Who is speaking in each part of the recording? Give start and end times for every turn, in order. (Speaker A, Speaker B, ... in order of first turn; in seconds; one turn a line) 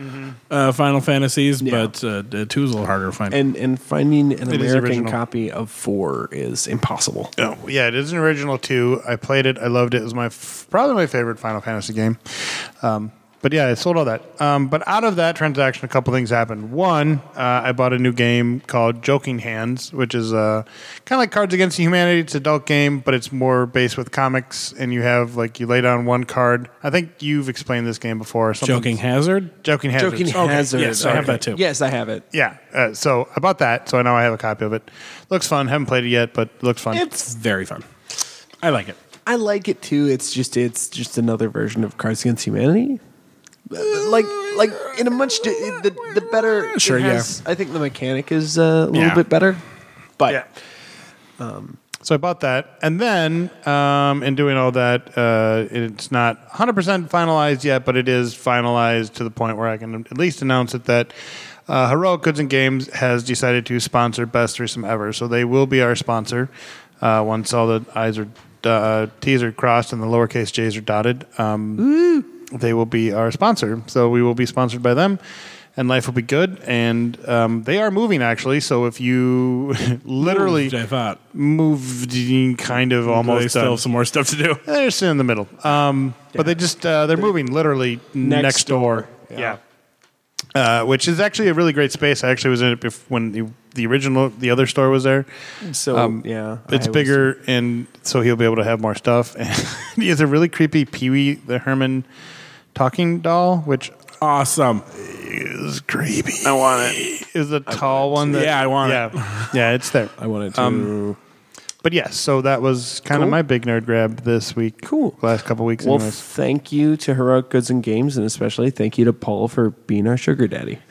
Speaker A: 0.5-3.4
Speaker B: 1.6-1.9
Speaker B: 3.3-7.3
Speaker C: 4.5-5.2
Speaker C: 7.4-29.0
Speaker A: 28.6-29.5
Speaker C: 29.6-31.4
Speaker B: 30.0-32.2
Speaker A: 30.3-31.6
Speaker C: 32.3-37.1
Speaker A: 36.9-37.9
Speaker A: 38.6-39.0
Speaker B: 39.3-43.0
Speaker B: 43.7-49.6
Speaker A: 46.7-47.3
Speaker A: 48.9-49.2
Speaker B: 50.2-50.5
Speaker B: 51.4-51.8
Speaker C: 52.0-61.1
Speaker C: 61.7-75.2
Speaker B: 71.8-72.2
Speaker C: 75.8-80.8
Speaker A: 80.2-81.2
Speaker C: 81.3-83.8
Speaker A: 83.1-84.6
Speaker C: 84.7-89.6
Speaker B: 88.2-89.6
Speaker C: 90.5-95.3
Speaker B: 95.6-97.3
Speaker C: 95.9-102.1
Speaker C: 102.7-104.0
Speaker A: 104.2-104.9
Speaker C: 104.9-110.9
Speaker A: 106.4-107.2
Speaker B: 107.7-108.5
Speaker A: 108.3-109.5
Speaker B: 110.2-111.2
Speaker C: 111.8-116.2
Speaker B: 113.1-113.4
Speaker B: 114.8-115.2
Speaker B: 115.8-120.8